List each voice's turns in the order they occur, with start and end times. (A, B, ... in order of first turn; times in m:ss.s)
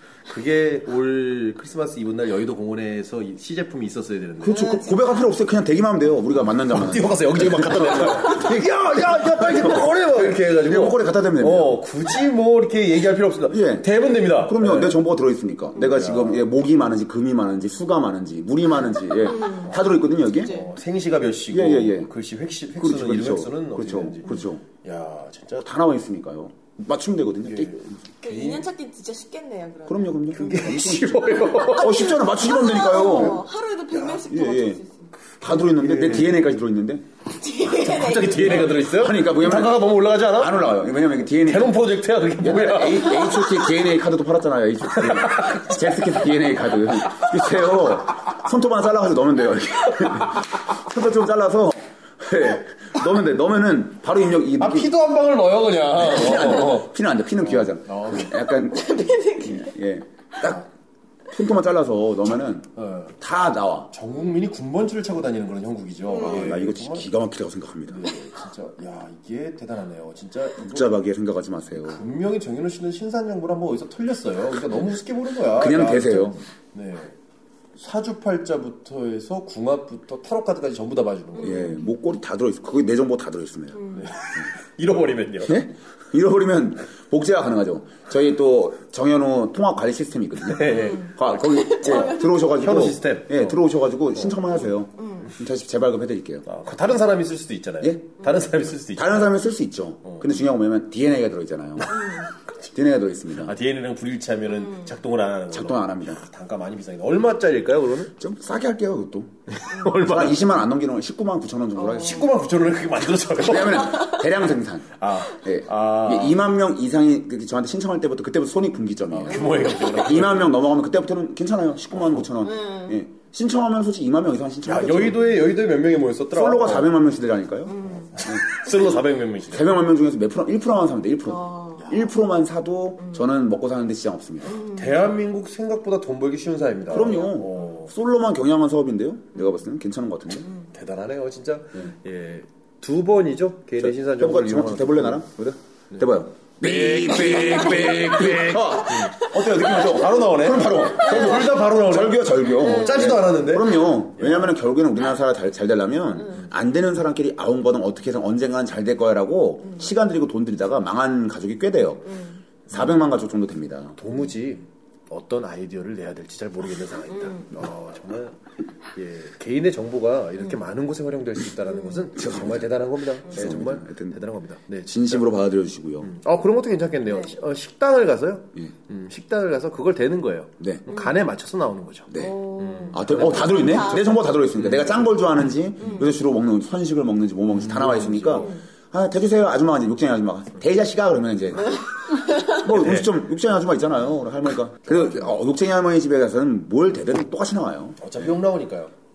0:00.3-0:04.7 A
0:04.4-0:11.8 B
0:04.5-0:05.0 C
0:06.4-0:15.0 A
0:13.5-0:20.6 B
0:15.8-0:16.5 A
0:19.2-0:19.7 C
0:20.4-0:25.7 A
0:21.5-0:22.1 B
0:22.8-0:24.6 B
0:25.6-0:27.9 B
0:27.4-0:28.6 A
0:28.2-0:30.6 C
0:29.9-0:33.5 B
0:30.3-0:32.1 A
0:31.7-0:35.1 C
0:34.2-0:34.8 B
0:35.4-0:37.0 B
0:35.4-0:36.4 A
0:37.3-0:38.7 C
0:37.7-0:40.6 A
0:38.4-0:41.8 B
0:41.4-0:43.4 A
0:42.4-0:54.9 B
0:44.9-0:46.1 A
0:54.6-0:56.9 A
0:56.0-1:00.6 B
0:57.4-0:58.4 A
0:58.6-0:59.7 C
1:01.3-1:03.9 B
1:02.8-1:03.1 A
1:03.9-1:07.1 A
1:06.2-1:08.1 B
1:07.9-1:10.9 A
1:10.6-1:12.0 B
1:11.8-1:17.2 A
1:15.5-1:16.4 B
1:17.8-1:21.7 A
1:21.4-1:24.0 B
1:21.4-1:21.8 C
1:23.8-1:24.0 C
1:23.9-1:25.6 A
1:25.4-1:36.5 B
1:30.4-1:33.6 A
1:30.8-1:32.6 C
1:35.0-1:35.3 C
1:36.4-1:39.4 A
1:38.9-1:42.0 B
1:41.9-1:42.2 A
1:41.9-1:42.3 C
1:42.7-1:43.6 B
1:43.4-1:48.1 A
1:45.5-1:46.2 B
1:48.2-1:52.3 B
1:49.5-1:50.4 A
1:51.8-1:54.2 A
1:53.4-2:05.3 B
1:55.0-1:56.4 A
1:59.2-2:00.5 A
2:02.4-2:03.0 C
2:04.7-2:07.0 A
2:06.3-2:08.4 B
2:07.7-2:08.1 C
2:08.2-2:09.8 A
2:09.5-2:14.6 B
2:11.3-2:11.8 C
2:11.8-2:12.0 A
2:14.5-2:14.8 C
2:14.6-2:17.9 A
2:16.9-2:20.5 B
2:20.7-2:25.2 A
2:23.8-2:42.2 B
2:26.6-2:34.5 A
2:31.0-2:31.4 C
2:32.6-2:33.2 C
2:42.1-2:42.4 C
2:42.7-2:44.0 B
2:44.0-2:48.4 A
2:48.9-2:55.3 A
2:52.2-2:54.2 B
2:54.9-2:56.1 B
2:56.0-3:04.0 A
3:02.1-3:02.4 B
3:02.2-3:04.1 C
3:02.9-3:11.8 B
3:04.6-3:05.1 A
3:07.6-3:08.6 A
3:12.4-3:18.3 B
3:12.7-3:13.1 A
3:18.0-3:18.9 A